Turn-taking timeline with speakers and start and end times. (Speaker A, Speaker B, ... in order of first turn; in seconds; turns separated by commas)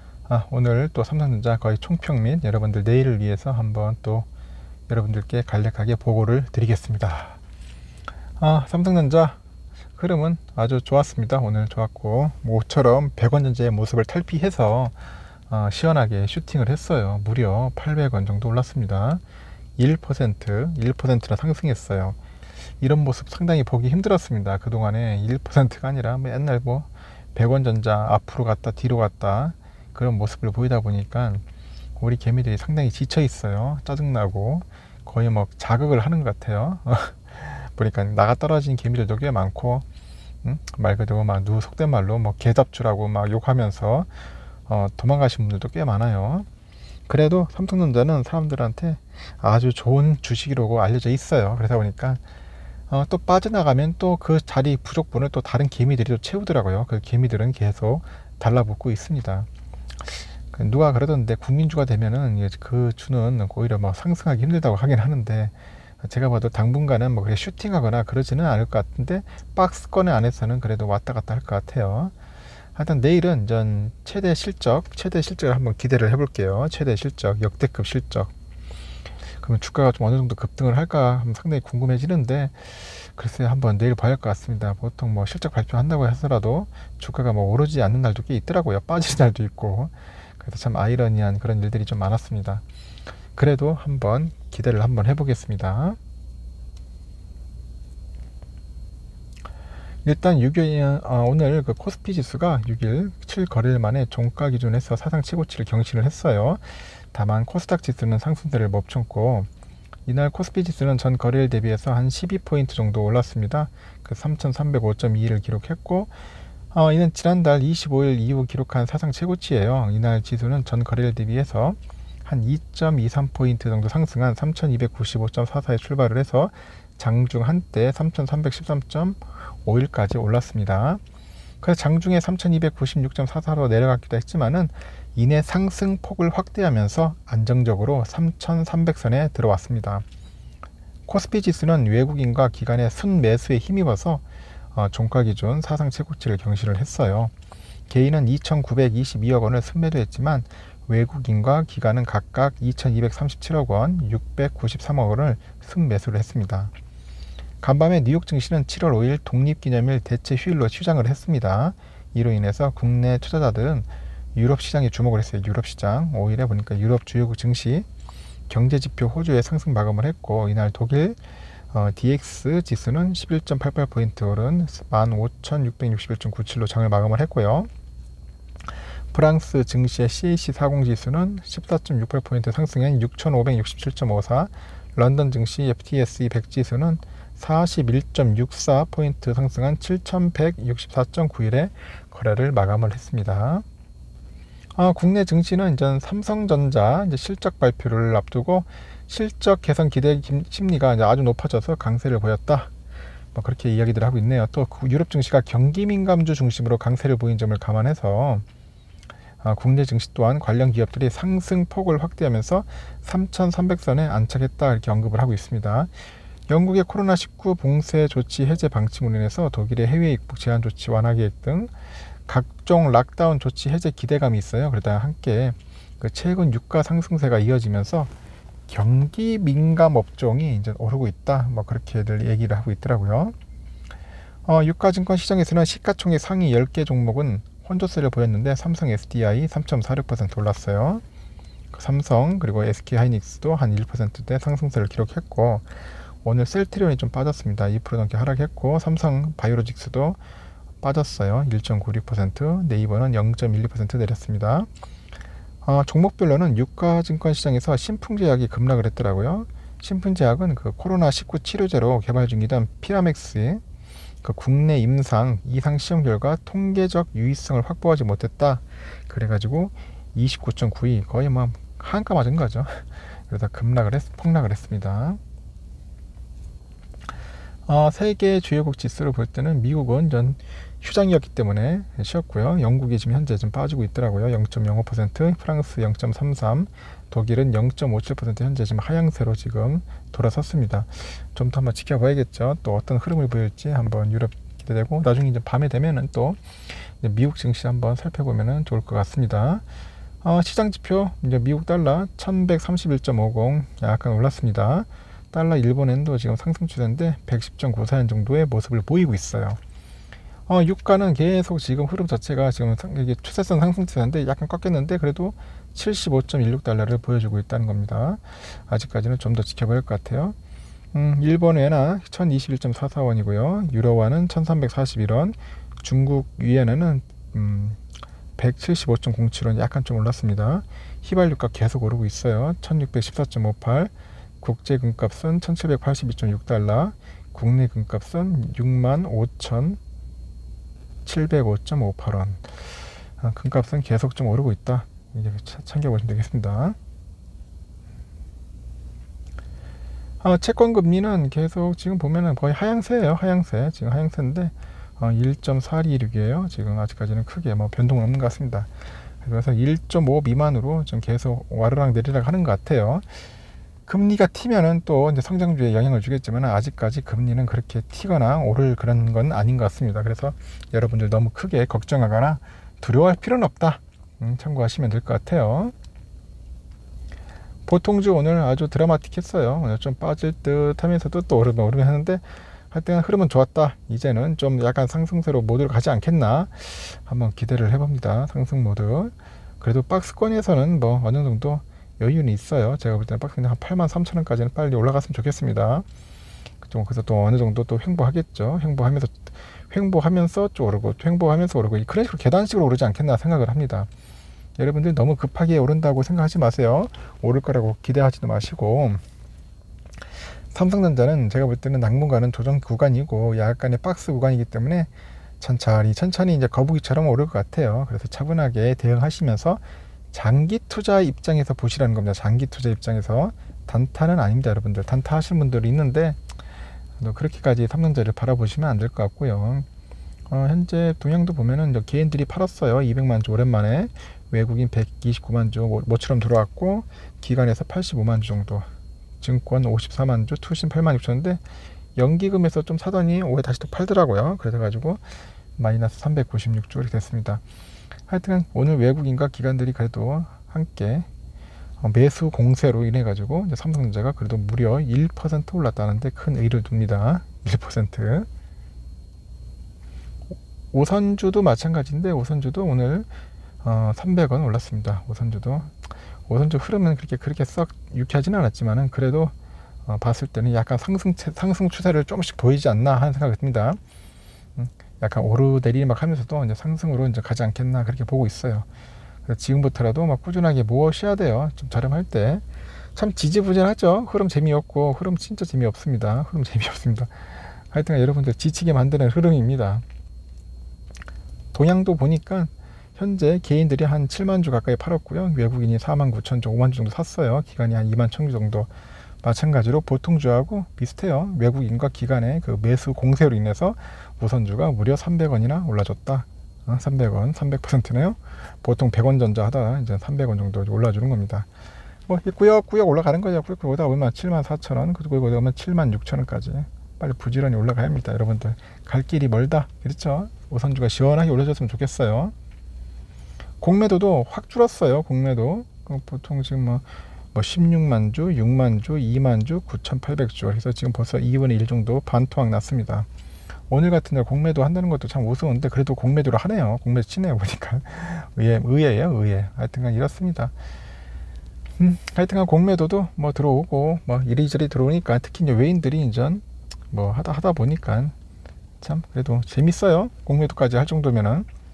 Speaker A: 0.3-4.3, Speaker A: 4.9-7.4, Speaker A: 8.4-9.4, Speaker A: 10.0-19.2, Speaker A: 19.8-22.2, Speaker A: 22.8-31.4, Speaker A: 32.0-39.8, Speaker A: 40.4-44.1, Speaker A: 44.7-46.5, Speaker A: 47.1-52.2, Speaker A: 52.9-59.5, Speaker A: 60.5-72.1, Speaker A: 72.8-78.3, Speaker A: 79.4-92.6, Speaker A: 93.3-96.0, Speaker A: 100.0-109.5, Speaker A: 110.1-116.1, Speaker A: 116.7-131.0, Speaker A: 131.6-140.0, Speaker A: 141.1-144.2, Speaker A: 144.7-147.3, Speaker A: 147.9-156.7, Speaker A: 157.6-167.8, Speaker A: 168.5-171.2, Speaker A: 171.7-177.7, Speaker A: 179.1-193.6, Speaker A: 194.7-202.7, Speaker A: 203.3-208.4, Speaker A: 209.4-215.9, Speaker A: 216.5-221.7, Speaker A: 222.3-228.1, Speaker A: 228.7-233.3, Speaker A: 234.4-241.0, Speaker A: 241.7-250.2, Speaker A: 250.8-254.7, Speaker A: 255.6-263.6, Speaker A: 264.2-275.2, Speaker A: 277.6-299.6, Speaker A: 300.2-309.6, Speaker A: 310.5-320.4, Speaker A: 320.9-327.8, Speaker A: 328.4-339.8, Speaker A: 341.0-342.6, Speaker A: 343.2-346.8, Speaker A: 350.2-358.7, Speaker A: 359.2-363.1, Speaker A: 363.9-375.7, Speaker A: 377.6-395.8, Speaker A: 396.6-403.9, Speaker A: 404.6-409.0, Speaker A: 410.5-426.2, Speaker A: 427.0-429.7, Speaker A: 430.3-438.7, Speaker A: 439.2-441.4, Speaker A: 441.9-445.0, Speaker A: 445.6-447.4, Speaker A: 448.1-451.1, Speaker A: 451.8-458.3, Speaker A: 460.7-463.1, Speaker A: 463.6-469.3, Speaker A: 469.9-473.8, Speaker A: 474.6-478.6, Speaker A: 479.3-482.4, Speaker A: 482.9-489.8, Speaker A: 491.5-498.7, Speaker A: 499.2-511.5, Speaker A: 512.1-522.3, Speaker A: 523.6-533.1, Speaker A: 533.7-540.5, Speaker A: 541.8-548.1, Speaker A: 548.8-551.5